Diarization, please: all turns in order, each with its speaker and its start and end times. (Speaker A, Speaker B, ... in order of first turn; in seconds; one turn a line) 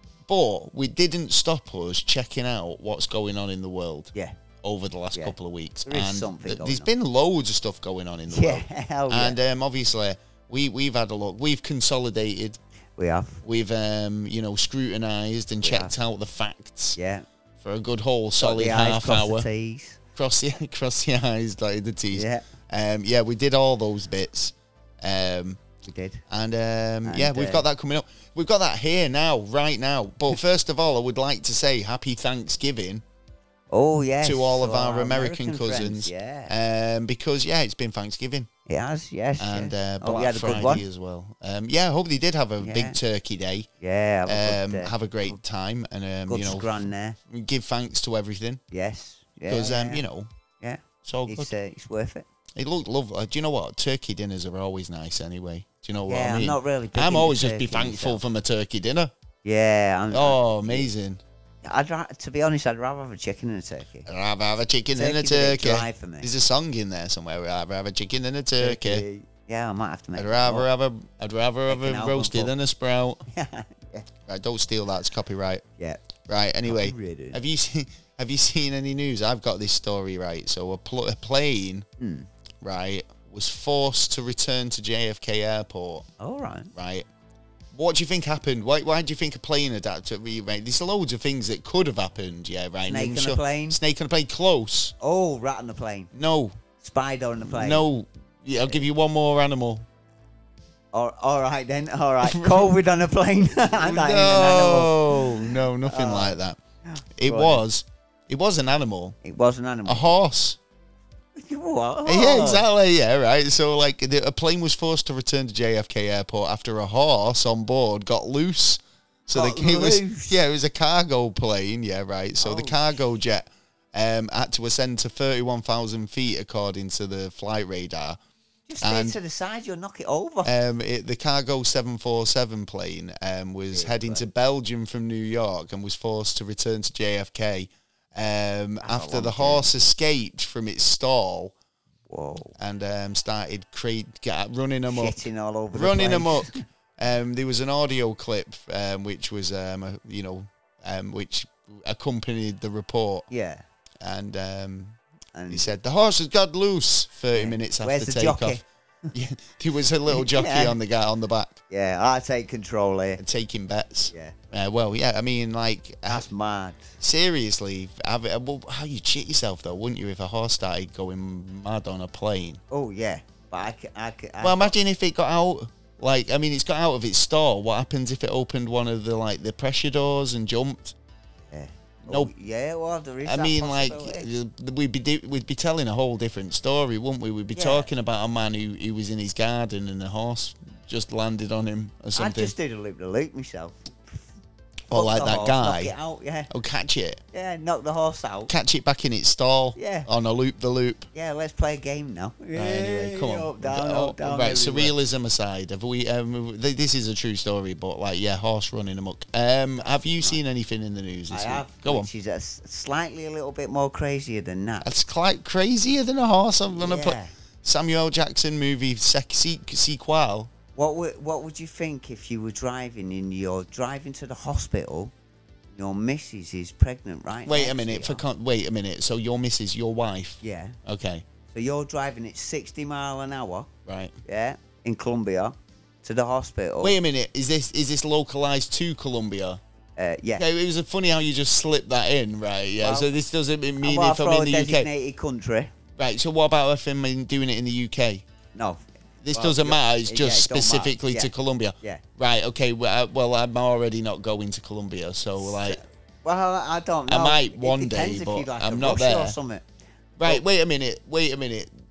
Speaker A: 0.3-4.1
Speaker A: 4.6-12.6
Speaker B: 5.9-6.9
Speaker B: 8.3-9.4
Speaker B: 13.0-13.4
Speaker A: 13.4-17.0
Speaker B: 15.6-15.9
Speaker B: 17.0-17.3
Speaker A: 17.6-19.5
Speaker B: 18.4-20.0
Speaker A: 20.2-25.6
Speaker B: 22.1-22.4
Speaker B: 25.8-26.2
Speaker A: 26.3-33.0
Speaker B: 27.1-27.6
Speaker B: 33.7-36.5
Speaker A: 34.2-38.5
Speaker B: 38.7-40.9
Speaker A: 39.4-43.7
Speaker B: 42.6-43.0
Speaker B: 43.8-45.4
Speaker A: 44.3-48.6
Speaker B: 46.3-47.2
Speaker B: 48.7-50.0
Speaker A: 49.5-50.3
Speaker B: 50.6-52.3
Speaker A: 51.0-51.5
Speaker A: 52.6-59.1
Speaker B: 56.1-58.2
Speaker B: 59.4-60.9
Speaker A: 60.1-61.2
Speaker B: 61.6-64.1
Speaker A: 64.1-69.0
Speaker B: 64.9-66.3
Speaker B: 68.6-70.7
Speaker A: 70.2-73.2
Speaker B: 71.7-72.5
Speaker B: 73.3-74.1
Speaker A: 74.3-75.6
Speaker A: 76.3-81.9
Speaker B: 76.7-77.4
Speaker B: 82.0-82.3
Speaker A: 82.6-86.1
Speaker B: 86.2-86.7
Speaker A: 86.7-87.1
Speaker A: 87.7-95.0
Speaker B: 92.9-93.8
Speaker B: 95.0-96.1
Speaker A: 96.1-96.6
Speaker B: 96.8-97.9
Speaker A: 97.5-99.9
Speaker B: 100.9-106.4
Speaker A: 102.2-102.7
Speaker A: 103.7-106.6
Speaker B: 106.9-107.6
Speaker A: 107.2-109.2
Speaker B: 109.2-110.2
Speaker A: 109.9-110.6
Speaker B: 111.4-112.7
Speaker A: 112.1-128.2
Speaker B: 119.3-120.4
Speaker B: 122.4-122.8
Speaker B: 128.7-130.5
Speaker A: 128.8-129.2
Speaker A: 130.4-141.5
Speaker B: 133.7-134.3
Speaker B: 138.8-139.7
Speaker B: 142.1-142.6
Speaker A: 142.6-153.3
Speaker B: 144.9-146.6
Speaker B: 153.3-153.6
Speaker A: 154.0-155.0
Speaker B: 155.3-155.7
Speaker A: 155.5-158.6
Speaker B: 157.3-159.1
Speaker A: 159.1-161.6
Speaker B: 160.1-160.8
Speaker B: 161.7-163.2
Speaker A: 163.2-166.3
Speaker B: 164.1-164.3
Speaker B: 166.1-167.0
Speaker A: 167.0-172.6
Speaker B: 172.7-174.8
Speaker A: 174.4-181.0
Speaker B: 181.5-184.3
Speaker A: 182.1-182.3
Speaker A: 183.2-192.5
Speaker B: 187.6-187.9
Speaker B: 192.2-194.2
Speaker A: 194.9-195.9
Speaker B: 194.9-196.5
Speaker A: 196.5-197.2
Speaker B: 197.3-198.5
Speaker A: 198.5-201.1
Speaker B: 199.8-200.1
Speaker B: 201.1-204.9
Speaker A: 202.5-212.1
Speaker B: 209.8-210.4
Speaker B: 211.3-214.9
Speaker A: 214.8-220.5
Speaker B: 216.7-217.3
Speaker B: 220.8-225.1
Speaker B: 225.7-228.2
Speaker A: 227.5-231.2
Speaker B: 230.4-230.8
Speaker B: 231.5-233.7
Speaker A: 233.9-234.2
Speaker B: 234.2-237.0
Speaker A: 236.8-239.6
Speaker B: 240.0-240.4
Speaker A: 240.4-244.9
Speaker B: 242.8-243.1
Speaker B: 243.8-245.7
Speaker A: 246.0-248.2
Speaker B: 248.6-248.8
Speaker A: 249.2-255.8
Speaker B: 249.3-251.3
Speaker B: 255.4-259.6
Speaker A: 257.1-259.4
Speaker A: 260.2-261.7